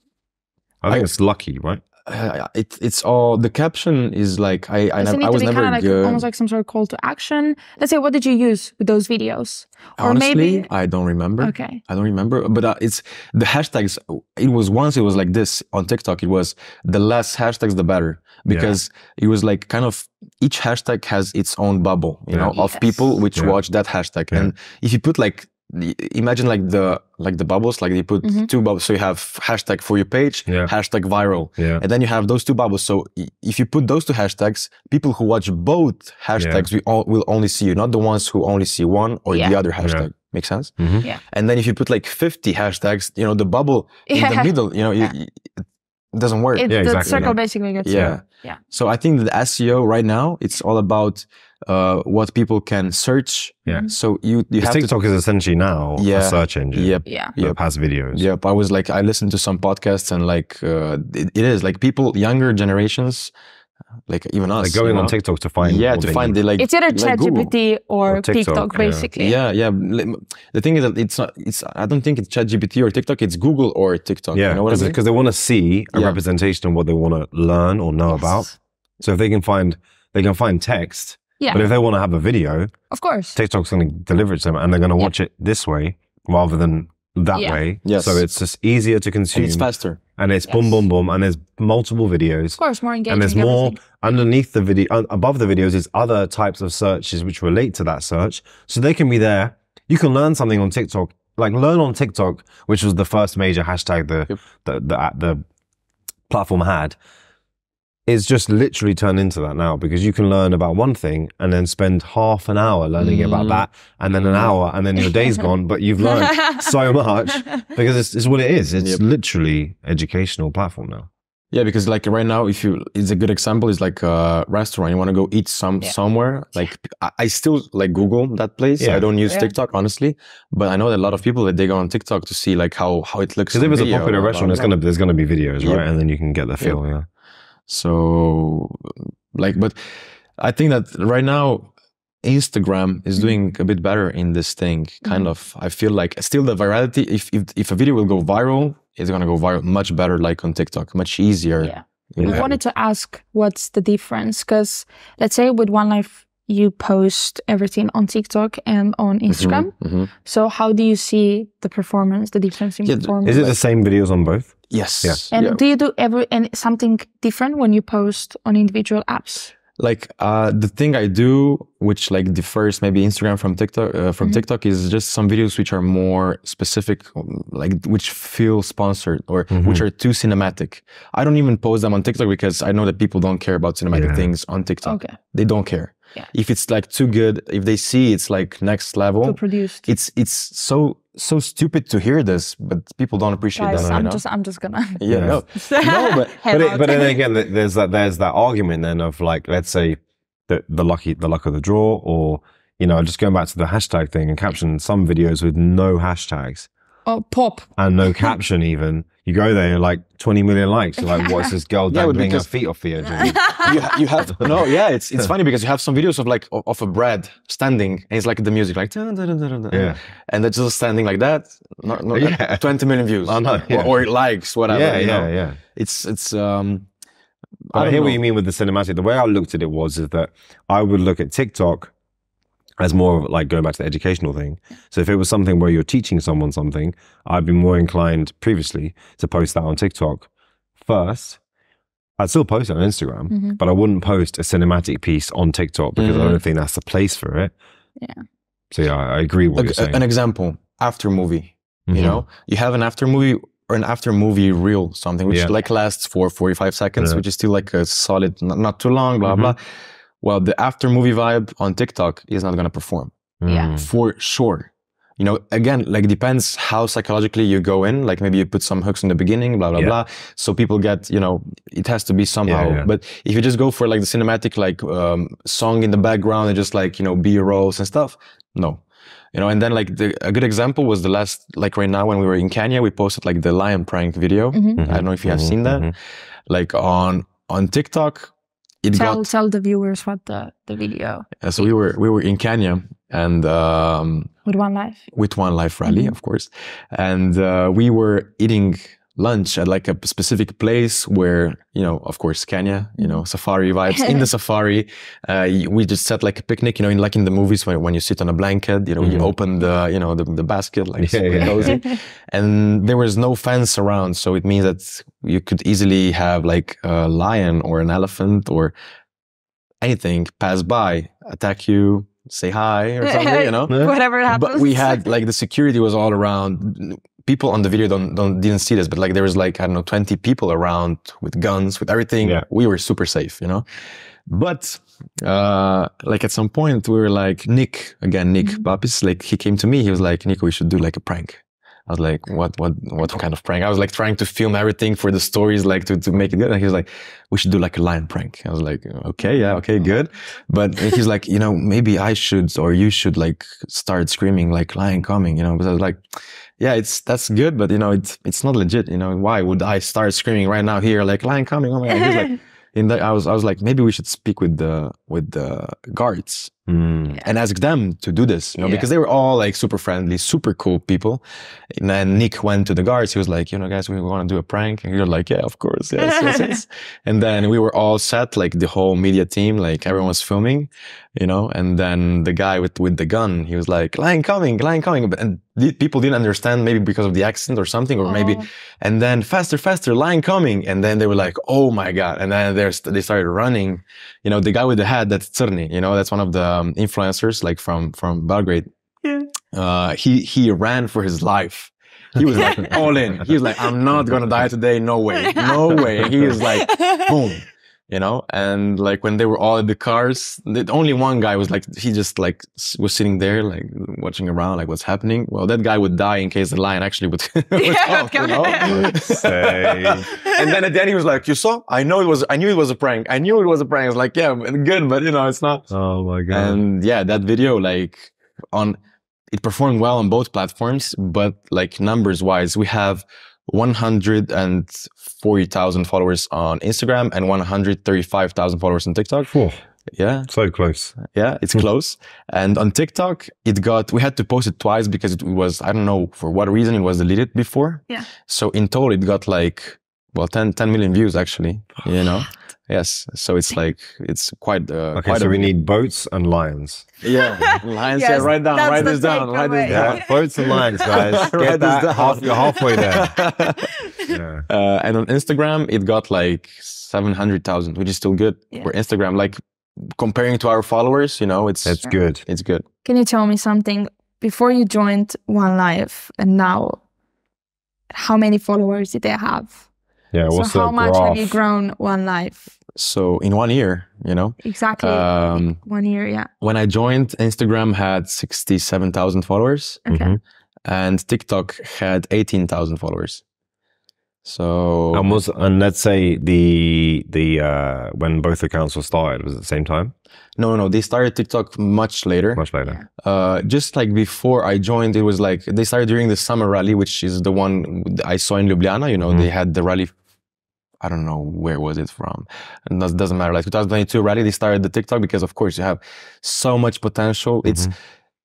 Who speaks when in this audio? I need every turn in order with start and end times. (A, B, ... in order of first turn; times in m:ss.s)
0:00.8-0:01.8 A
0:02.0-0:06.2 B
0:05.0-0:10.7 C
0:10.0-0:40.7 B
0:11.4-0:11.8 C
0:18.5-0:18.7 A
0:22.5-0:23.0 C
0:28.2-0:28.5 C
0:30.5-0:30.7 A
0:31.6-0:31.8 A
0:36.4-0:36.7 A
0:39.3-0:39.6 C
0:39.8-0:40.1 A
0:40.8-0:41.0 A
0:41.3-0:45.5 B
0:44.1-0:45.1 C
0:46.1-0:54.9 B
0:46.6-0:48.6 C
0:46.7-0:47.4 A
0:47.9-0:48.2 A
0:53.6-0:53.9 C
0:54.6-0:58.2 A
0:56.0-0:57.6 B
0:57.0-0:57.3 C
0:58.1-1:03.3 B
1:04.1-1:07.5 B
1:04.6-1:06.4 A
1:06.6-1:09.4 C
1:08.1-1:09.1 A
1:09.2-1:15.0 B
1:14.3-1:22.7 A
1:15.9-1:16.2 B
1:18.1-1:18.5 C
1:21.4-1:21.7 C
1:22.9-1:23.4 C
1:23.3-1:45.4 A
1:27.3-1:27.6 C
1:27.8-1:28.2 B
1:29.3-1:30.0 B
1:30.5-1:30.8 C
1:32.6-1:33.8 C
1:46.3-1:47.0 A
1:48.1-2:01.1 A
1:53.0-1:54.5 B
1:56.0-1:56.7 C
2:01.5-2:14.7 B
2:08.8-2:09.1 A
2:09.3-2:09.5 C
2:13.5-2:17.0 A
2:17.7-2:19.8 B
2:20.4-2:21.7 B
2:22.2-2:32.6 B
2:31.6-2:43.5 C
2:32.2-2:32.5 A
2:39.3-2:40.1 B
2:42.8-2:43.5 B
2:43.2-2:45.2 A
2:44.7-2:45.6 B
2:45.3-2:49.5 C
2:49.8-3:14.2 B
2:59.5-2:59.8 A
3:03.9-3:04.3 A
3:04.8-3:05.2 C
3:09.2-3:09.8 C
3:13.6-3:15.0 C
3:13.7-3:14.0 A
3:15.0-3:16.4 B
3:15.1-3:15.4 A
3:15.5-3:17.2 C
3:16.5-3:26.7 A
3:27.0-3:27.7 C
3:27.8-3:34.5 A
3:31.0-3:31.5 C
3:31.9-3:32.5 B
3:33.0-3:34.0 C
3:33.6-3:46.9 B
3:39.7-3:40.0 A
3:42.1-3:44.0 A
3:44.7-3:45.6 A
3:47.7-3:48.2 B
3:47.7-3:51.9 A
3:52.8-4:01.4 A
4:02.2-4:07.5 A
4:03.3-4:03.6 C
4:06.0-4:06.4 B
4:08.7-4:10.0 A
4:09.5-4:19.6 B
4:11.9-4:12.2 A
4:17.0-4:17.2 A
4:19.2-4:19.5 A
4:20.2-4:23.2 B
4:23.4-4:23.9 A
4:23.4-4:23.7 C
4:23.8-4:38.8 B
4:32.4-4:32.9 A
4:39.3-4:45.9 B
4:44.5-4:44.8 C
4:44.8-4:45.9 A
4:46.5-4:48.3 B
4:48.8-4:49.2 B
4:49.0-4:51.7 C
4:51.4-4:54.3 B
4:54.4-4:55.0 C
4:55.1-5:18.7 B
4:55.8-4:56.1 C
5:09.0-5:09.3 A
5:11.0-5:11.8 A
5:11.4-5:11.9 C
5:19.8-5:33.6 B
5:23.0-5:25.0 C
5:34.3-5:56.0 B
5:49.2-5:49.6 C
5:56.6-6:06.5 B
6:06.7-6:07.2 A
6:07.2-6:11.2 B
6:08.6-6:08.9 C
6:11.7-6:38.7 B
6:16.0-6:16.6 C
6:28.0-6:28.4 C
6:39.5-7:05.7 B
6:42.2-6:42.7 A
6:42.3-6:42.9 C
6:45.1-6:47.1 C
6:57.6-6:59.0 C
6:58.7-7:00.1 A
7:00.0-7:00.4 C
7:05.7-7:06.6 A
7:06.3-7:08.8 B
7:09.3-7:19.3 B
7:19.2-7:19.6 A
7:19.9-7:20.3 B
7:20.3-7:20.9 A
7:21.0-7:35.5 B
7:34.9-7:36.9 A
7:37.0-7:43.7 B
7:37.1-7:41.3 C
7:39.6-7:43.2 A
7:42.4-7:43.1 C
7:43.8-7:44.2 C
7:44.1-7:44.4 A
7:44.5-7:52.6 B
7:51.6-7:52.2 A
7:52.8-7:56.8 C
7:57.9-7:59.6 C
8:00.1-8:01.4 A
8:00.3-8:02.5 C
8:02.8-8:05.6 B
8:04.4-8:06.3 C
8:06.4-8:09.8 B
8:09.8-8:10.2 C
8:09.9-8:10.2 A
8:10.7-8:13.2 B
8:14.2-8:15.1 B
8:14.9-8:19.9 A
8:20.4-8:22.4 B
8:22.4-8:22.8 A
8:23.0-8:29.9 B
8:29.0-8:29.3 A
8:30.8-8:37.7 B
8:37.4-8:37.7 A